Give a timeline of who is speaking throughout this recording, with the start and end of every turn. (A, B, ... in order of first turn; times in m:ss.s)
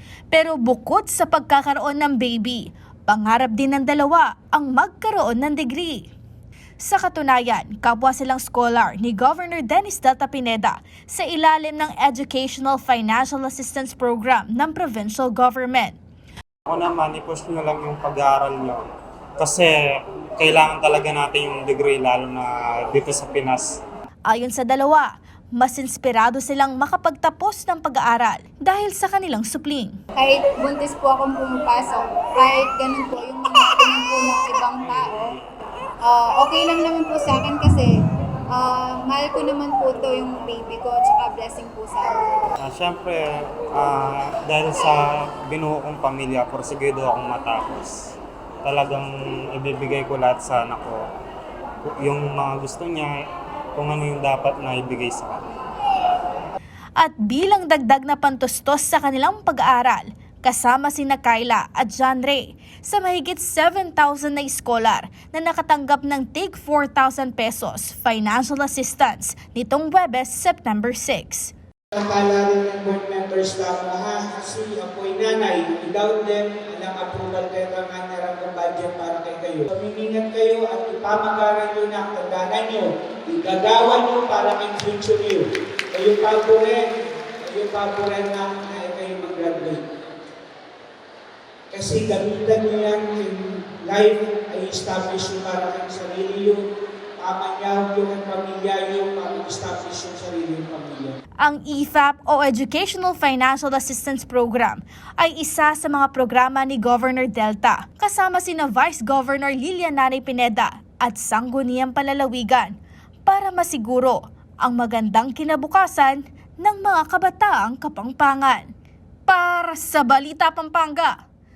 0:00.3-0:06.1 A
0:06.8-0:16.0 A
0:16.7-0:18.8 B
0:19.4-0:23.8 B
0:24.3-0:30.0 A
0:30.2-0:35.4 C
0:36.0-0:37.9 C
0:38.5-0:42.2 C
0:42.6-0:51.0 B
0:51.9-0:53.1 B
0:53.8-0:55.5 B
0:57.0-1:11.5 A
1:11.9-1:26.9 D
1:27.4-1:29.8 D
1:31.7-1:36.6 D
1:37.2-1:41.2 D
1:41.4-1:58.7 A
1:59.3-2:01.2 A